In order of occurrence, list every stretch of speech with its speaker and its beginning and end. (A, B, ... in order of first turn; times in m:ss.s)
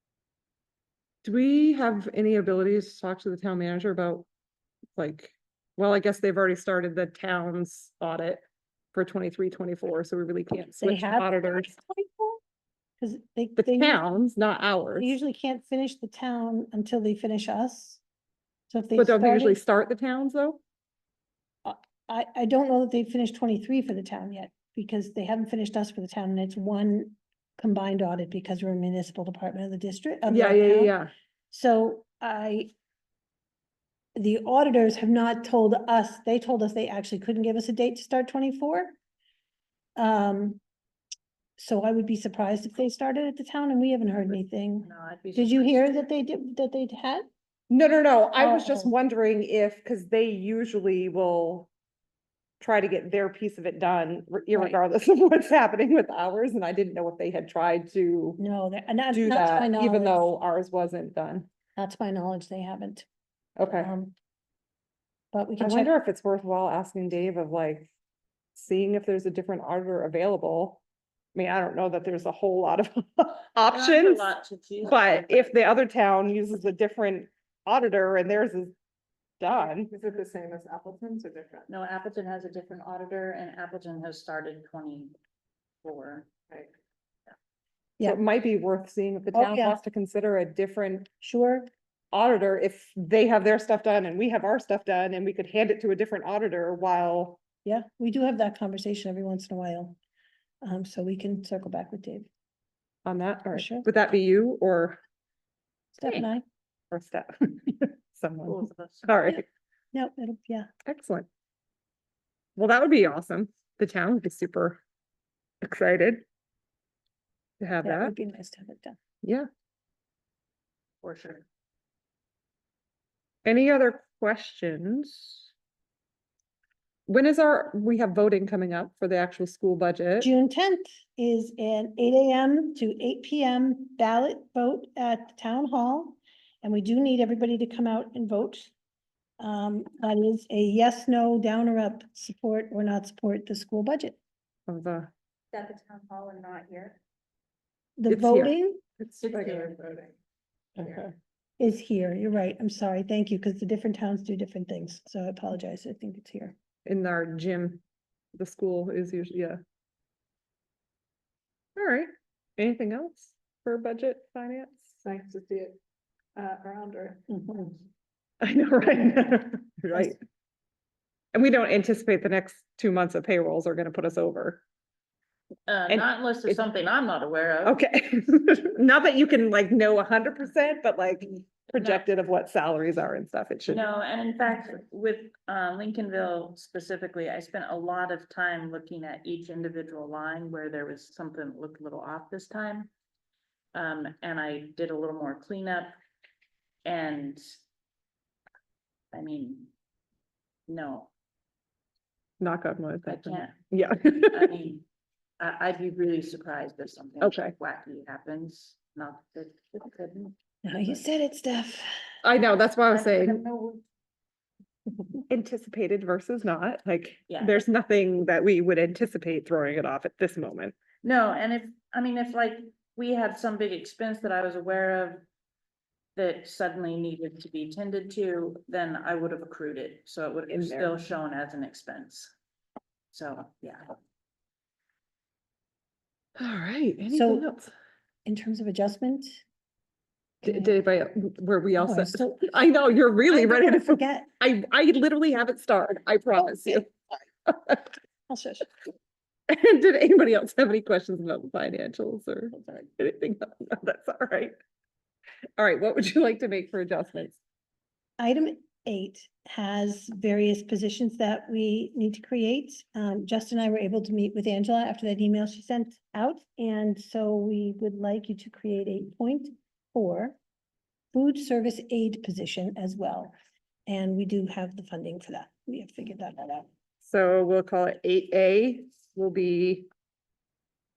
0:01.2-0:04.3 A
0:05.0-0:11.8 A
0:10.8-0:12.4 B
0:13.0-0:14.0 B
0:13.6-0:15.2 A
0:15.0-0:18.0 B
0:18.7-0:19.6 B
0:19.0-0:20.6 A
0:21.6-0:30.9 B
0:30.3-0:31.1 A
0:31.5-0:32.7 B
0:34.2-0:39.0 B
0:40.0-0:40.6 B
0:41.6-0:47.3 B
0:44.8-0:46.0 C
0:47.7-0:51.7 A
0:48.4-0:48.9 B
0:52.6-0:58.4 A
0:54.5-0:54.8 B
0:58.4-1:00.3 B
0:59.1-1:01.5 A
1:01.8-1:03.1 B
1:03.6-1:03.9 A
1:03.8-1:04.1 B
1:05.3-1:05.9 B
1:05.6-1:07.9 A
1:08.6-1:10.8 A
1:11.4-1:14.3 A
1:13.7-1:15.6 C
1:14.8-1:18.7 A
1:19.4-1:19.9 A
1:19.9-1:21.7 D
1:21.7-1:25.2 C
1:25.8-1:26.4 C
1:28.0-1:31.1 A
1:29.3-1:29.8 B
1:31.2-1:31.7 B
1:32.1-1:37.4 A
1:37.6-1:40.0 B
1:40.6-1:42.3 B
1:43.0-1:45.0 A
1:43.5-1:43.9 B
1:46.0-1:46.4 B
1:46.9-1:49.4 A
1:48.5-1:49.4 C
1:49.9-1:50.7 B
1:50.9-1:51.3 A
1:52.6-1:54.8 A
1:55.6-1:56.2 A
1:57.6-1:58.1 A
1:57.8-1:59.0 B
1:59.2-1:59.5 A
2:01.0-2:01.5 C
2:03.4-2:05.3 A
2:07.1-2:10.3 A
2:10.2-2:18.7 B
2:19.4-2:24.2 B
2:24.7-2:25.1 A
2:25.5-2:27.0 C
2:28.0-2:28.8 B
2:28.1-2:28.5 A
2:29.0-2:30.1 D
2:29.4-2:29.8 C
2:30.8-2:31.1 A
2:31.6-2:36.6 B
2:36.9-2:37.8 A
2:38.4-2:39.6 A
2:41.8-2:45.0 A
2:45.0-2:45.8 D
2:46.4-2:47.3 D
2:48.4-2:50.2 A
2:51.3-2:54.6 A
2:55.7-2:57.8 C
2:55.9-2:56.6 A
2:57.6-3:03.8 A
3:01.8-3:02.0 C
3:03.7-3:12.9 C
3:13.7-3:16.0 C
3:16.8-3:17.4 C
3:19.1-3:19.7 C
3:20.7-3:21.1 C
3:22.4-3:24.5 A
3:23.1-3:23.6 C
3:24.1-3:24.8 C
3:25.4-3:31.0 C
3:27.2-3:27.5 A
3:30.6-3:31.9 B
3:32.2-3:33.4 A
3:32.9-3:33.8 C
3:35.3-3:40.8 A
3:37.3-3:37.7 C
3:41.0-3:45.2 C
3:46.2-3:52.3 C
3:50.5-3:51.0 A
3:53.1-3:53.9 C
3:56.4-3:57.7 A
3:57.1-3:57.5 B
3:58.2-3:59.4 B
4:00.4-4:00.8 B
4:00.4-4:06.9 A
4:01.8-4:02.6 B
4:03.3-4:04.3 B
4:07.5-4:07.9 A
4:08.3-4:08.7 B
4:09.5-4:14.5 A
4:15.6-4:17.4 A
4:18.2-4:30.4 B
4:31.1-4:33.3 B
4:33.9-4:36.7 B
4:37.0-4:39.9 A